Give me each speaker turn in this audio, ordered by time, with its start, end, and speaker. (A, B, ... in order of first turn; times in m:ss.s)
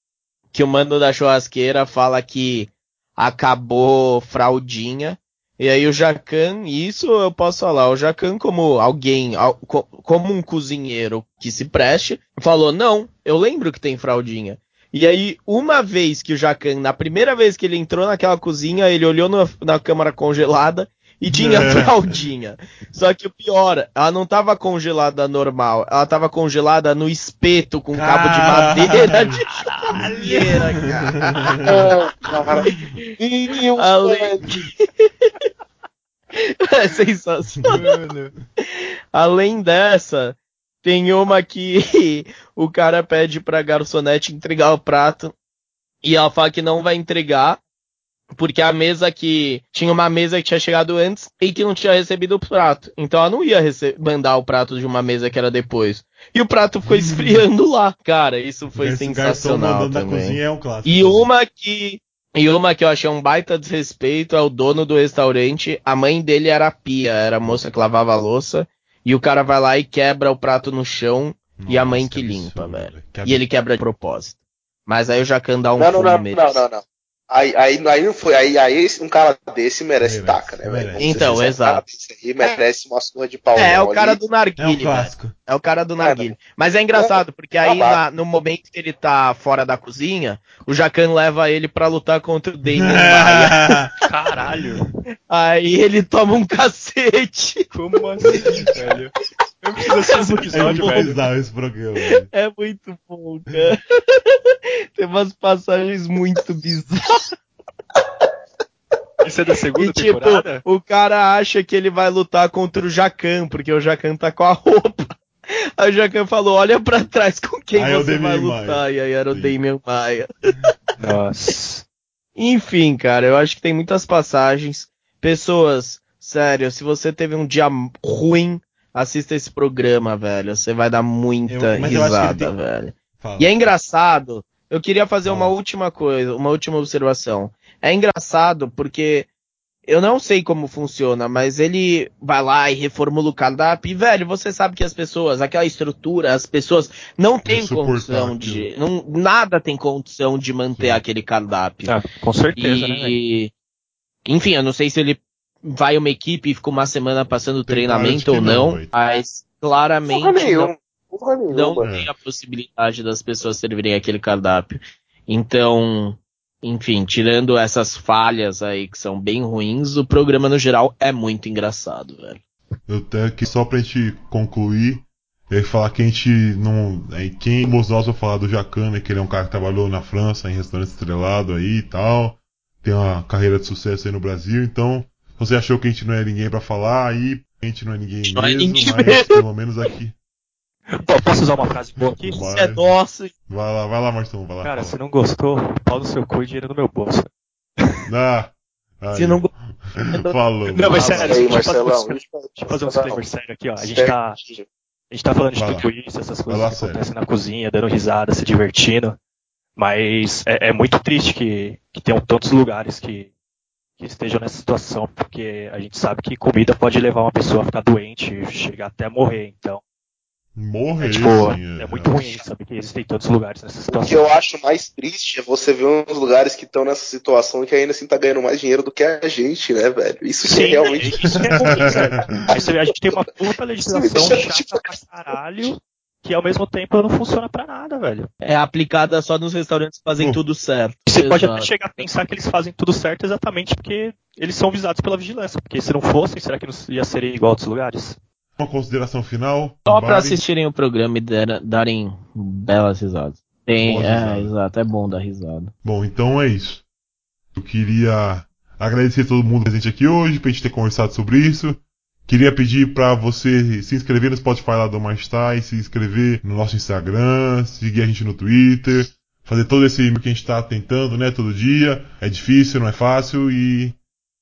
0:00.5-0:31.7 A
0:21.3-0:21.9 B
0:27.9-0:29.4 B
0:29.9-0:30.6 B
0:31.2-0:31.9 B
0:31.6-0:34.4 C
0:33.8-0:35.3 A
0:36.4-0:37.9 A
0:37.5-0:37.8 B
0:37.7-0:38.3 D
0:38.6-0:45.3 A
0:46.0-0:47.6 A
0:48.3-1:14.4 A
0:56.8-0:57.4 B
0:58.7-1:01.3 B
1:11.6-1:13.4 B
1:14.9-1:16.6 A
1:15.8-1:24.2 C
1:20.0-1:21.4 B
1:21.0-1:21.8 A
1:23.5-1:33.8 A
1:24.6-1:25.3 B
1:26.0-1:26.3 C
1:26.9-1:28.0 C
1:32.8-1:34.7 B
1:34.1-1:34.9 D
1:35.3-1:37.7 A
1:37.7-1:39.1 D
1:38.2-1:38.6 A
1:38.3-1:38.7 B
1:39.6-1:41.2 D
1:40.1-1:41.1 A
1:40.5-1:42.3 B
1:42.3-1:47.3 A
1:49.2-1:50.6 D
1:49.8-1:55.1 A
1:55.8-2:00.5 A
1:57.7-1:59.5 B
2:01.0-2:01.8 D
2:02.4-2:19.3 A
2:11.5-2:12.5 B
2:13.2-2:13.5 B
2:15.2-2:15.5 B
2:19.9-2:32.0 A
2:27.4-2:28.7 B
2:30.8-2:31.0 B
2:31.8-2:33.2 D
2:32.6-2:33.5 A
2:34.2-2:40.7 A
2:37.7-2:38.9 B
2:40.1-2:41.9 C
2:41.5-2:52.4 A
2:41.8-2:42.1 B
2:52.9-3:10.1 B
3:08.3-3:09.4 A
3:11.1-3:12.4 D
3:12.2-3:12.9 B
3:12.3-3:13.3 A
3:13.5-3:15.0 B
3:14.6-3:17.3 D
3:18.1-3:21.6 B
3:19.1-3:19.5 A
3:20.1-3:20.3 A
3:20.7-3:24.4 D
3:20.9-3:21.2 A
3:21.2-3:23.2 C
3:23.8-3:24.6 C
3:25.1-3:29.2 D
3:25.5-3:25.9 B
3:26.5-3:27.0 B
3:29.8-3:33.3 D
3:34.0-3:39.8 D
3:40.5-3:42.1 B
3:41.0-3:44.3 D
3:41.1-3:41.6 A
3:43.9-3:53.2 C
3:50.4-3:58.3 D
3:51.3-3:52.5 B
3:53.8-3:55.7 C
3:58.4-4:01.7 A
4:01.1-4:08.2 D
4:08.6-4:10.4 B
4:09.9-4:15.7 A
4:13.8-4:14.5 B
4:15.8-4:16.8 B
4:17.5-4:34.0 B